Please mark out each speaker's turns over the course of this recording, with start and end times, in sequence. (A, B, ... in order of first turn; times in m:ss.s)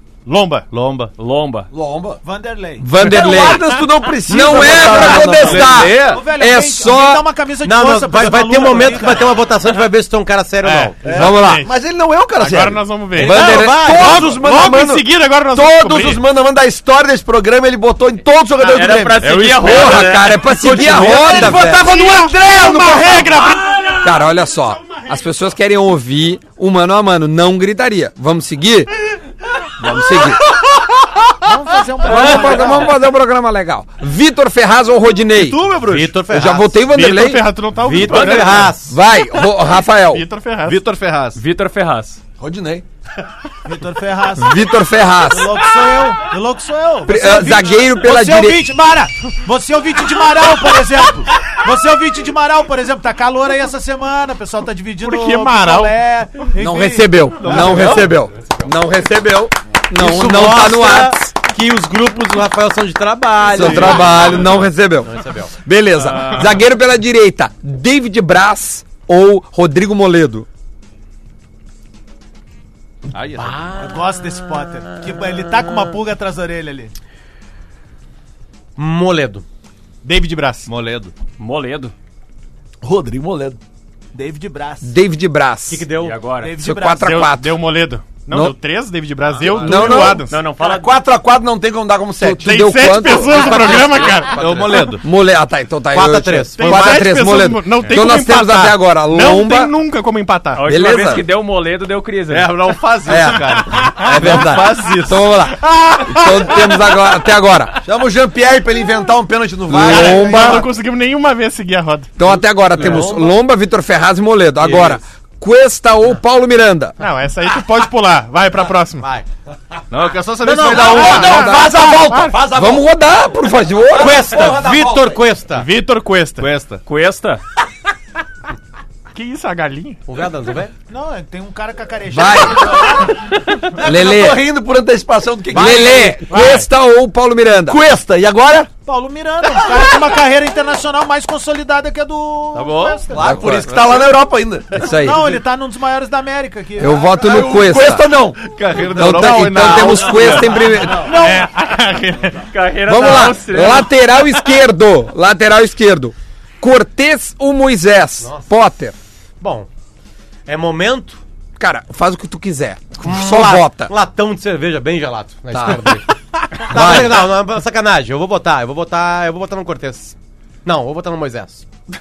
0:00.3-0:00.6 A
0:00.7-0:01.1 B
0:01.2-0:01.7 C
0:01.7-0:02.2 D
0:02.2-0:03.4 E
0:02.8-0:07.2 F
0:03.1-0:05.8 D
0:04.6-0:06.2 B
0:05.6-0:09.4 E
0:07.6-0:11.0 G
0:10.6-0:11.7 A
0:11.0-0:19.3 D
0:11.1-0:11.7 F
0:12.4-0:16.2 A
0:13.1-0:14.4 G
0:13.2-0:14.3 F
0:18.6-0:21.2 C
0:19.3-0:21.9 F
0:20.6-0:23.5 D
0:21.3-0:24.3 A
0:23.9-0:28.9 F
0:29.8-0:30.4 F
0:31.4-0:32.9 E
0:32.0-0:35.6 F
0:32.2-0:32.7 G
0:35.4-0:36.2 B
0:35.9-0:36.8 G
0:36.3-0:37.5 F
0:36.9-0:38.7 A
0:37.8-0:38.9 G
0:38.9-0:40.2 F
0:40.1-0:40.8 A
0:40.7-0:41.4 B
0:41.4-0:42.2 C
0:42.4-0:42.8 D
0:43.7-0:44.7 E
0:44.4-0:45.6 F
0:45.3-0:57.4 E
0:47.1-0:48.6 F
0:55.0-0:56.0 A
0:56.6-1:01.3 F
0:57.4-0:58.2 B
1:00.0-1:05.5 G
1:03.4-1:10.5 F
1:04.1-1:04.4 B
1:13.1-1:13.9 B
1:13.3-1:16.0 G
1:13.8-1:16.9 E
1:18.8-1:19.4 G
1:20.0-1:20.7 A
1:20.7-1:21.1 B
1:21.4-1:21.9 C
1:22.8-1:23.6 D
1:24.1-1:25.0 E
1:24.8-1:25.8 F
1:25.7-1:26.2 G
1:26.0-1:26.6 C
1:26.4-1:27.1 E
1:26.6-1:27.6 F
1:27.0-1:30.4 A
1:28.3-1:28.6 F
1:29.3-1:30.1 B
1:29.5-1:30.3 F
1:30.3-1:30.9 C
1:30.6-1:32.5 D
1:32.2-1:33.7 F
1:32.4-1:34.4 A
1:33.3-1:35.0 G
1:34.4-1:35.1 B
1:35.0-1:39.7 F
1:35.9-1:37.2 G
1:36.6-1:40.6 A
1:40.6-1:42.5 C
1:40.6-1:41.3 F
1:42.3-1:45.4 B
1:43.1-1:47.7 F
1:45.9-1:46.2 A
1:47.8-1:50.7 D
1:49.7-1:50.7 F
1:49.8-1:52.2 A
1:52.2-1:57.0 F
1:52.8-1:53.3 G
1:52.8-1:53.2 D
1:57.0-1:59.1 A
1:59.9-2:01.6 B
2:00.4-2:02.0 G
2:00.6-2:02.9 D
2:01.1-2:02.4 A
2:02.5-2:04.3 F
2:03.9-2:05.2 D
2:04.0-2:05.7 G
2:05.5-2:06.5 A
2:06.4-2:06.8 B
2:06.9-2:07.4 C
2:09.1-2:10.0 A
2:10.1-2:10.7 G
2:10.9-2:13.5 E
2:12.1-2:12.8 F
2:13.8-2:14.4 F
2:13.8-2:16.3 D
2:15.5-2:17.8 F
2:16.3-2:16.7 A
2:17.7-2:18.7 D
2:18.8-2:23.4 E
2:22.5-2:24.2 B
2:23.1-2:24.9 D
2:23.2-2:23.7 F
2:24.8-2:25.2 F
2:24.8-2:27.1 E
2:26.8-2:28.1 F
2:27.1-2:28.4 D
2:28.4-2:30.7 B
2:28.9-2:31.1 F
2:30.9-2:31.5 E
2:31.1-2:32.5 A
2:32.5-2:33.9 C
2:32.9-2:39.0 F
2:33.0-2:33.8 A
2:39.4-2:39.7 G
2:40.5-2:41.2 G
2:41.6-2:43.9 F
2:43.0-2:46.1 G
2:45.5-2:46.0 F
2:46.6-2:51.6 G
2:46.7-2:47.3 F